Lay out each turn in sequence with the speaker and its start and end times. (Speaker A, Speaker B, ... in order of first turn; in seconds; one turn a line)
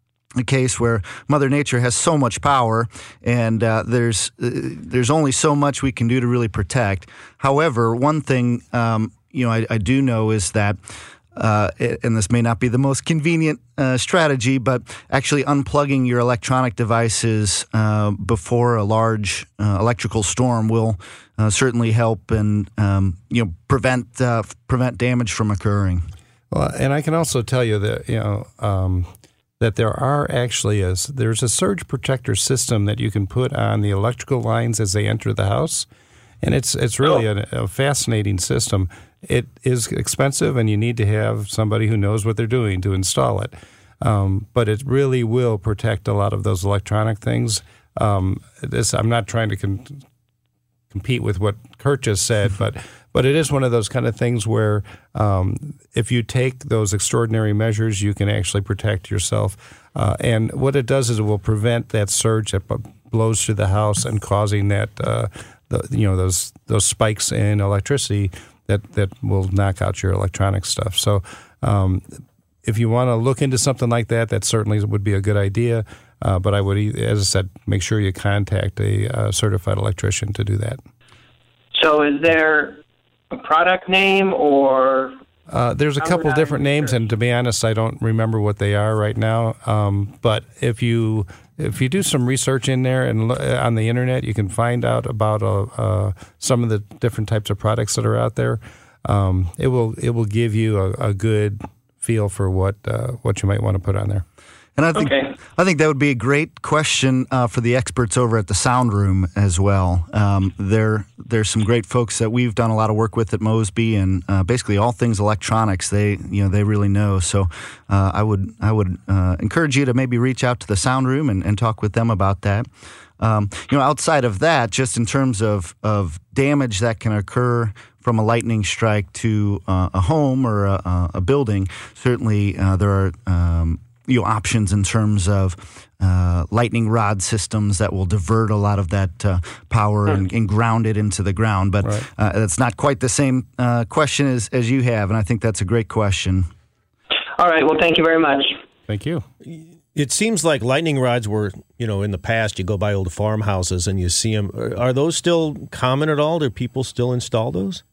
Speaker A: 0.4-10.8
Speaker A: 11.3-26.1
Speaker B: 26.5-29.1
Speaker B: 29.6-35.9
Speaker B: 36.4-50.0
Speaker B: 50.9-80.8
Speaker C: 81.7-85.2
Speaker B: 85.5-104.2
Speaker C: 86.0-87.0
Speaker A: 104.8-122.7
Speaker A: 123.2-146.5
Speaker C: 147.4-148.6
Speaker B: 148.9-149.2
Speaker D: 149.5-157.8